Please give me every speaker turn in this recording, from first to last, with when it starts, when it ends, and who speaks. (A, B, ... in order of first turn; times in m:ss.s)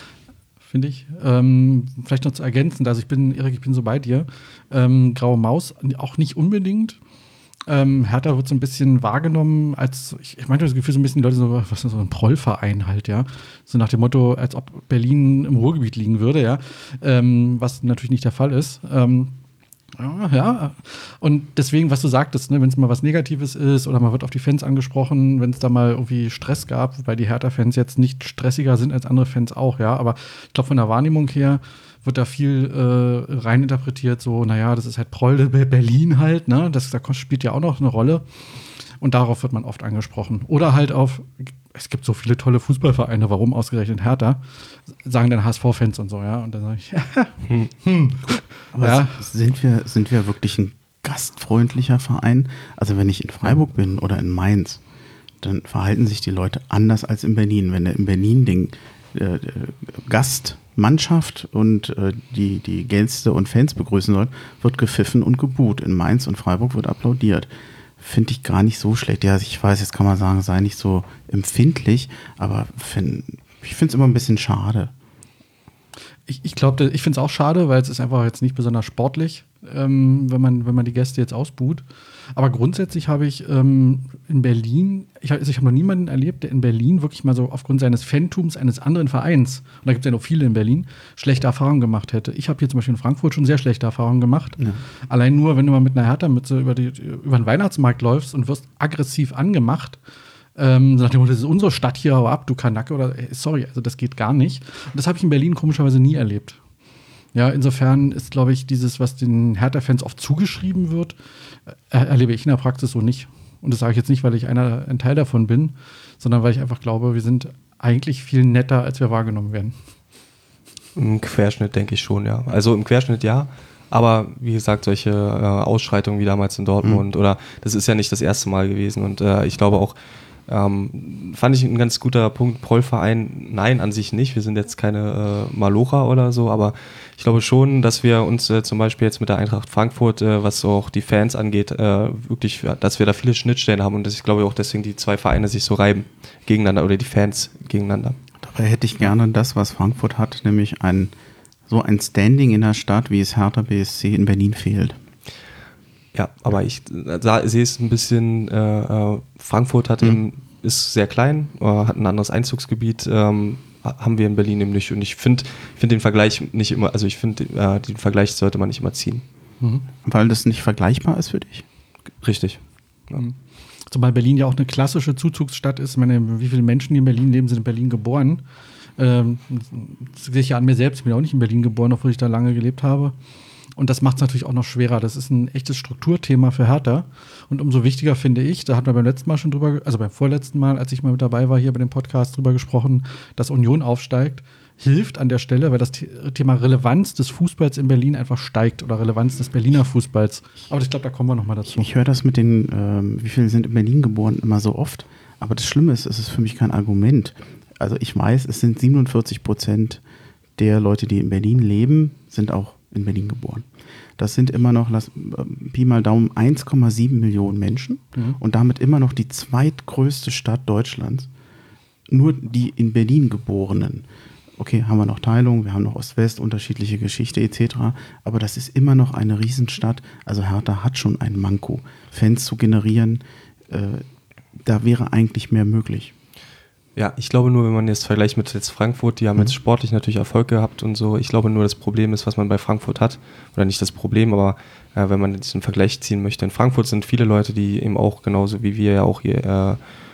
0:00.6-0:07.0 A
0:07.7-0:19.4 A
0:20.0-0:38.3 A
0:39.0-0:49.2 A
0:48.7-0:54.8 B
0:55.4-1:07.5 B
1:08.0-1:14.9 B
1:16.3-1:21.8 A
1:22.4-1:40.0 A
1:40.6-1:46.6 A
1:47.3-1:51.2 A
1:51.9-1:59.8 A
2:01.0-2:10.0 C
2:10.5-2:28.2 C
2:28.4-2:31.1 B
2:31.7-2:35.0 B
2:36.1-2:49.2 C
2:49.6-2:49.9 A
2:50.0-2:51.6 B
2:52.2-2:53.2 C
2:53.9-2:58.4 A
2:59.0-3:03.2 A
3:03.8-3:21.9 A
3:21.7-3:30.0 B
3:30.6-3:33.7 B
3:34.2-3:41.3 B
3:42.1-3:44.1 B
3:44.6-3:56.1 B
3:57.0-4:09.8 C